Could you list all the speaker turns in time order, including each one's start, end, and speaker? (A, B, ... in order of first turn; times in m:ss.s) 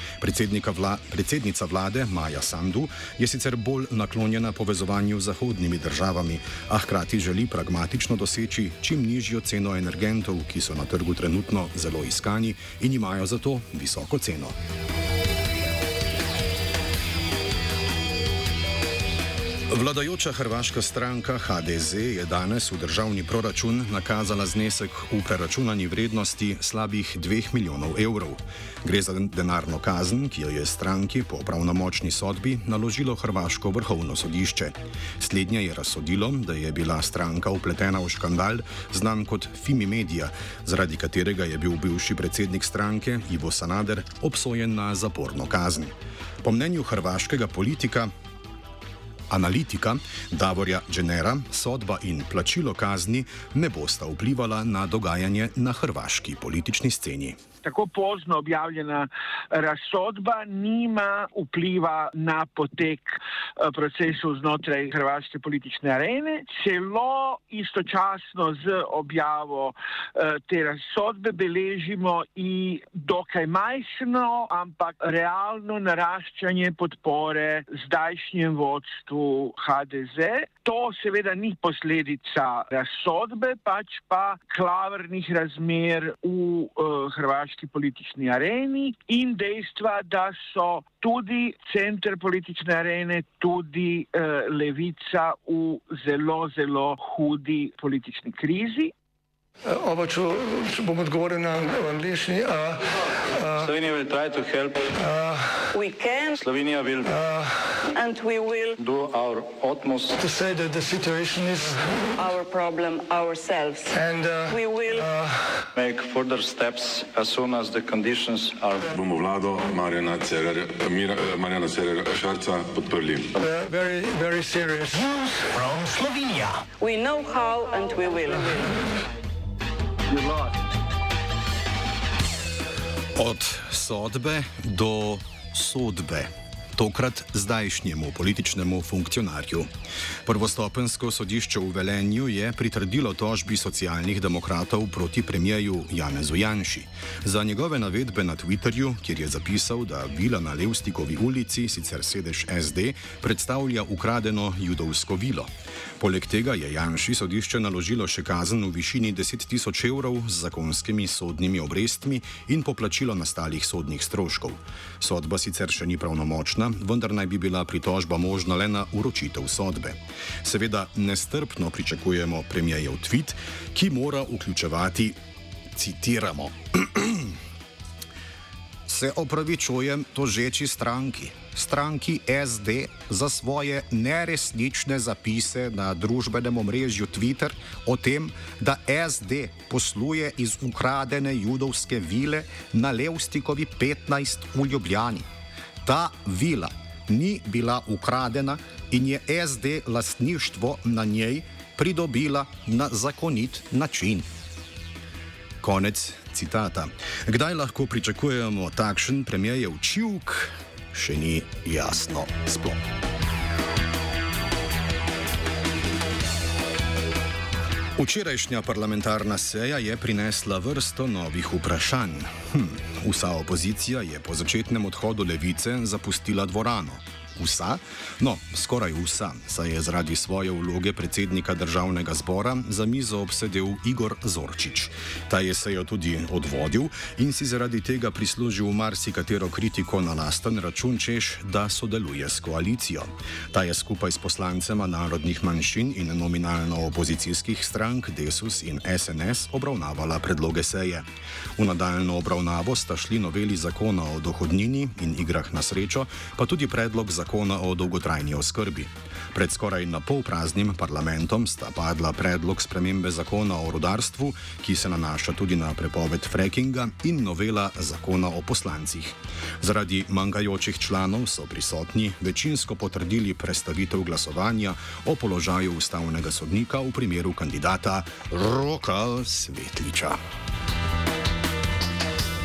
0:00.2-0:14.6 A
0:19.7-0:48.1 A
0:49.3-0:57.4 A
0:57.6-1:38.9 B
1:39.6-1:43.7 C
1:43.6-1:44.9 D
1:45.0-1:45.7 C
1:45.7-1:46.4 E
1:46.4-1:47.1 D
1:47.1-1:47.8 C
1:47.8-1:48.8 E
1:48.8-1:50.2 D
1:50.2-1:52.1 C
1:52.2-1:55.1 E
1:53.9-1:55.6 C
1:55.7-1:58.9 D
1:58.9-2:03.4 F
2:03.4-2:06.6 C
2:06.7-2:08.7 E
2:13.2-2:19.7 A
2:20.3-2:55.2 A
2:55.7-2:57.4 A
2:58.9-3:15.3 A
3:15.8-3:24.3 A
3:25.6-3:32.9 A
3:38.0-4:40.2 A